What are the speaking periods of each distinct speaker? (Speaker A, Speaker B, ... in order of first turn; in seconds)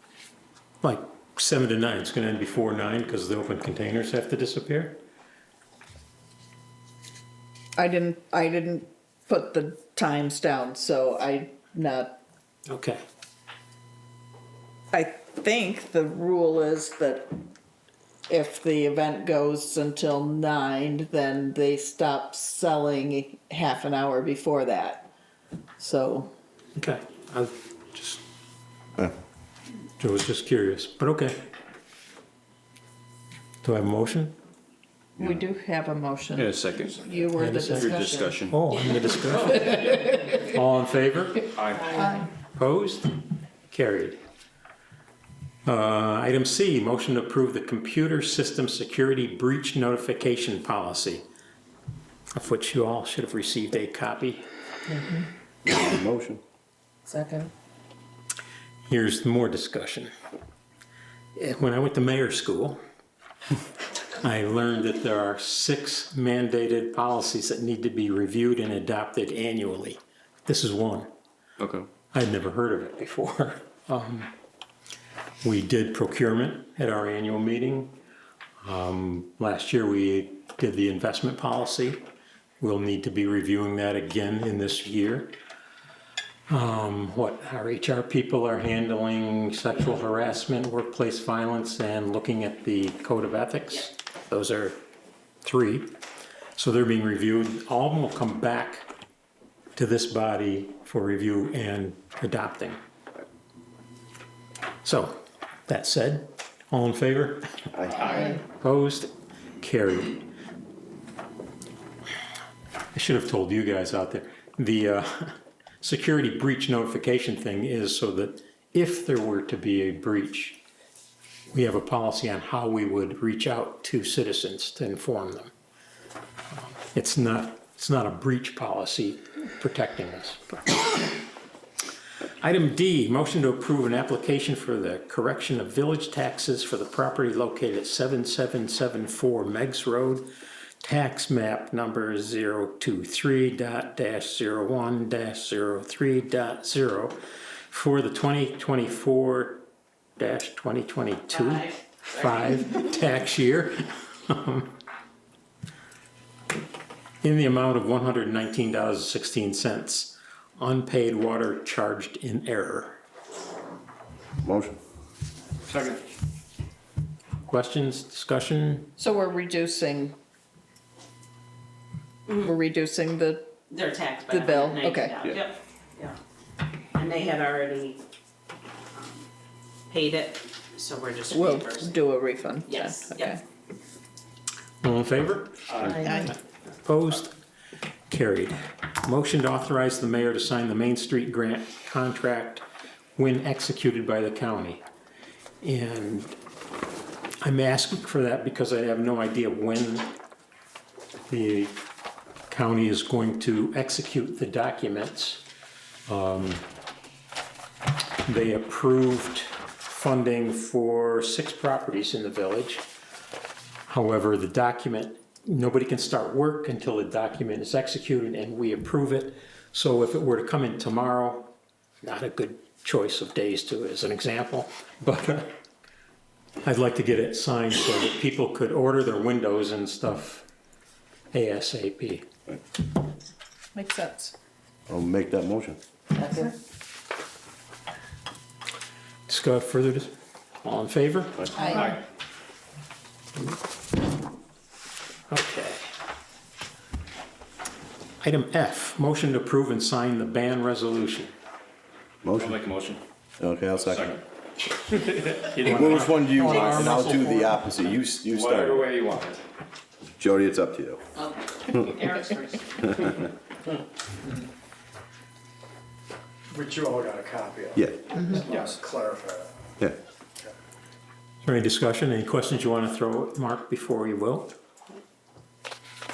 Speaker A: 0.8-5.0, 12.7-13.0, 26.8-28.2, 30.0-31.4, 33.6-34.4, 37.4-41.5, 42.5-43.1, 43.7-44.2, 45.7-51.2, 52.3-54.4, 58.9-60.1, 61.4-62.8, 64.1-71.1, 72.1-74.3, 75.4-78.0, 78.6-82.0, 82.6-85.3, 86.5-94.8, 95.4-95.9, 96.6-98.9, 99.8-102.8, 104.8-110.2, 112.9-120.6, 121.5-125.5, 126.9-130.8, 132.4-140.3, 140.8-147.2, 147.7-149.7, 150.2-154.8, 157.2-163.0, 167.5-168.9, 184.8-186.3, 186.8-187.4, 188.1-192.7, 193.2-194.8, 195.6-196.3, 197.4-200.1, 201.3-201.8, 202.5-205.4, 206.1-206.7, 208.2-212.8, 213.9-225.5, 226.6-230.5, 231.3-232.2, 239.3-241.9, 245.3-245.8, 248.2-251.3, 255.5-257.4, 271.4-274.6
Speaker B: 7.8-12.2, 14.9-17.3, 18.3-25.1, 25.8-26.3, 35.2-38.4, 41.8-42.3, 57.1-57.5, 169.0-170.2, 172.3-173.5, 174.3-175.1, 181.3-183.4, 185.9-186.3, 233.7-234.3, 236.2-236.5, 241.6-242.0
Speaker C: 36.4-37.0, 37.8-38.1, 41.5-42.0, 252.3-253.0, 253.8-254.2, 255.5-256.7, 258.3-259.4, 268.4-268.8
Speaker D: 55.7-56.4, 107.8-108.2, 164.4-164.8, 234.9-235.8, 252.2-252.6, 253.4-254.2, 255.6-259.0, 260.2-261.0
Speaker E: 151.3-151.8, 173.7-176.2, 176.9-178.0, 179.9-182.0, 182.7-183.4, 185.8-186.2, 261.2-263.3
Speaker F: 266.5-269.5